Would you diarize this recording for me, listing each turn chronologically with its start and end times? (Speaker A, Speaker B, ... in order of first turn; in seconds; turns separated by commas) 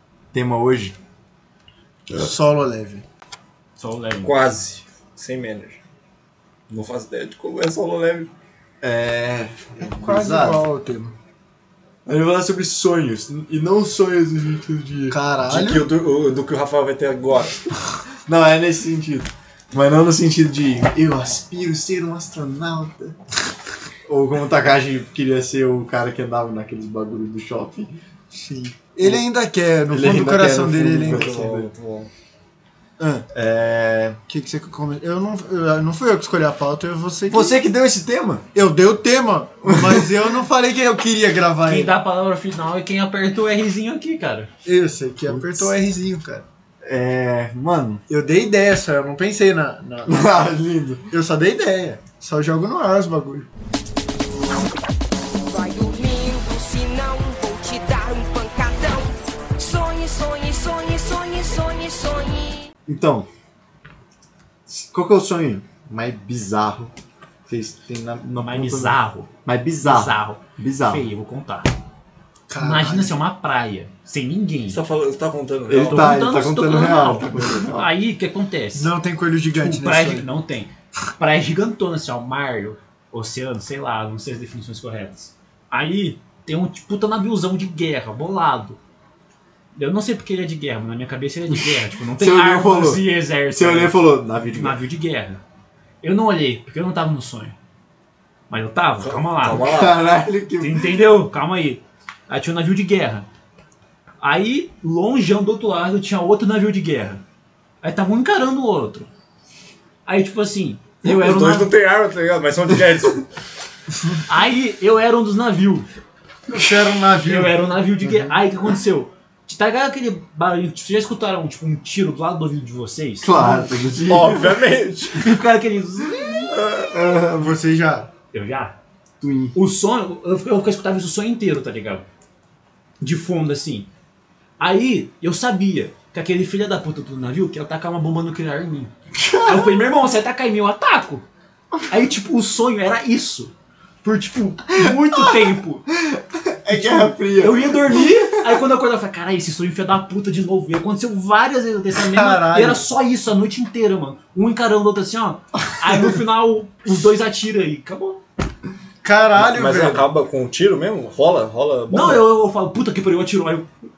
Speaker A: 0.3-0.9, Speaker B: 2.1-3.0, Speaker C: 3.8-4.3, Speaker D: 4.2-5.8, Speaker D: 6.7-8.3, Speaker A: 8.8-10.6, Speaker B: 9.8-11.2, Speaker A: 12.1-15.2, Speaker B: 15.1-15.9, Speaker D: 15.4-17.6, Speaker A: 18.1-23.1, Speaker A: 24.1-27.9, Speaker B: 28.3-31.3, Speaker A: 29.9-31.7, Speaker D: 31.0-32.1, Speaker B: 33.0-33.2, Speaker A: 33.3-34.2, Speaker B: 34.3-37.5, Speaker A: 37.3-38.5, Speaker B: 38.5-41.9, Speaker A: 39.6-40.1, Speaker C: 41.6-44.5, Speaker B: 44.6-46.4, Speaker A: 45.2-45.7, Speaker A: 46.8-48.0, Speaker B: 48.1-50.2, Speaker A: 50.0-51.1, Speaker B: 51.1-53.5, Speaker E: 55.5-62.7, Speaker A: 62.9-63.3, Speaker A: 64.7-66.9, Speaker A: 67.5-71.0, Speaker C: 68.3-71.7, Speaker B: 72.5-73.1, Speaker C: 72.6-74.8, Speaker D: 74.7-76.2, Speaker A: 75.7-77.9, Speaker C: 75.9-78.9, Speaker B: 78.7-80.3, Speaker C: 79.5-88.8, Speaker C: 89.7-95.4, Speaker A: 92.2-94.8, Speaker C: 96.0-97.5, Speaker C: 98.5-99.7, Speaker D: 99.0-100.0, Speaker A: 99.6-101.0, Speaker C: 100.6-103.3, Speaker C: 104.2-107.2, Speaker C: 107.8-109.1, Speaker C: 110.0-111.7, Speaker D: 111.0-113.2, Speaker C: 114.3-115.9, Speaker B: 116.5-117.6, Speaker C: 117.2-123.6, Speaker A: 118.0-118.3, Speaker A: 123.2-124.7, Speaker D: 124.0-125.3, Speaker C: 125.1-126.5, Speaker A: 126.5-127.5, Speaker B: 127.4-128.1, Speaker C: 128.3-128.8, Speaker A: 129.2-129.5, Speaker C: 129.5-132.0, Speaker C: 133.0-133.9, Speaker C: 134.6-141.2, Speaker A: 139.1-139.8, Speaker C: 141.9-143.5, Speaker C: 144.0-145.8, Speaker A: 144.7-148.6, Speaker C: 146.7-158.2, Speaker B: 152.0-152.8, Speaker B: 159.0-160.1, Speaker D: 159.3-162.3, Speaker C: 161.9-163.7